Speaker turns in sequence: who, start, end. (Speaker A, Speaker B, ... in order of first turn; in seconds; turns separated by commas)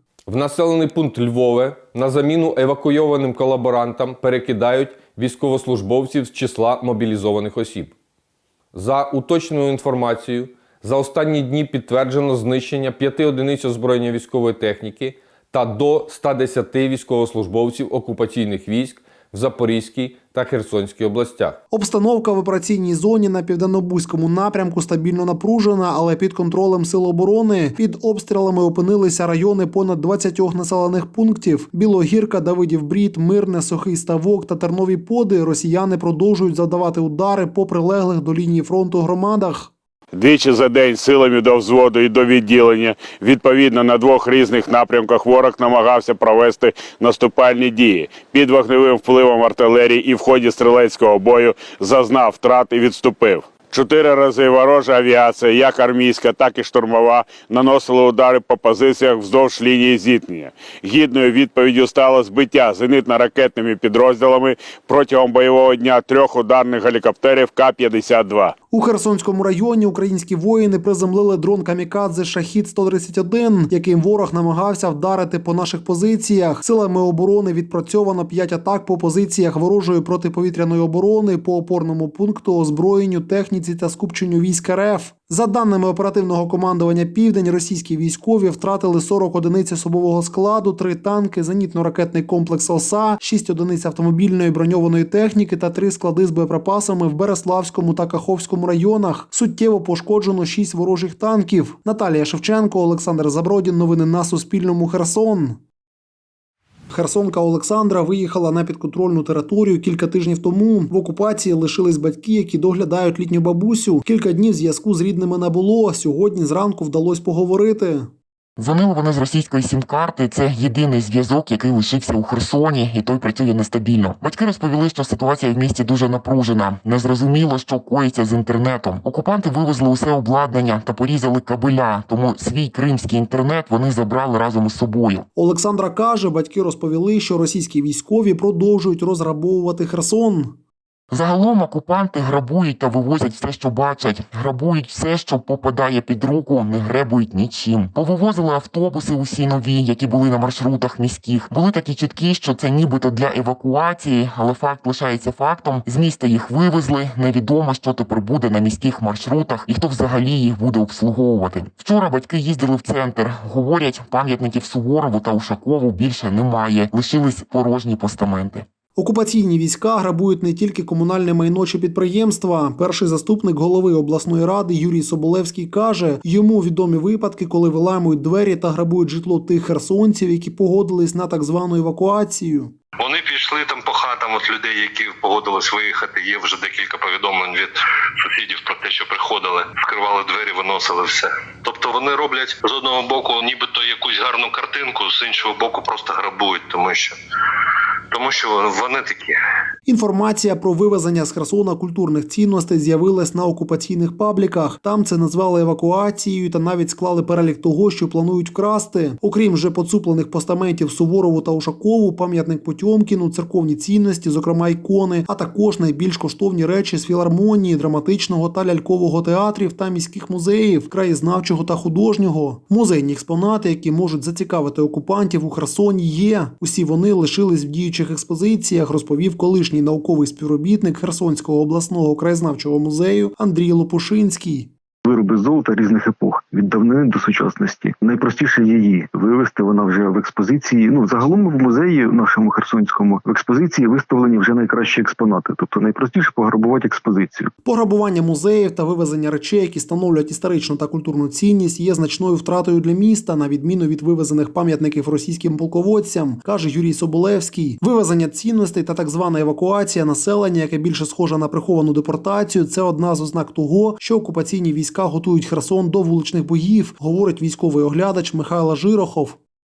Speaker A: 0.3-8.0, Speaker A: 8.7-21.6, Speaker B: 21.7-39.7, Speaker C: 40.1-68.5, Speaker B: 68.7-105.6, Speaker B: 106.9-118.1, Speaker D: 118.6-135.3, Speaker B: 135.4-140.6, Speaker D: 141.1-168.7, Speaker B: 169.0-182.7, Speaker E: 183.0-197.2, Speaker E: 198.1-199.4, Speaker B: 199.9-234.7, Speaker F: 235.1-247.5, Speaker B: 247.7-269.4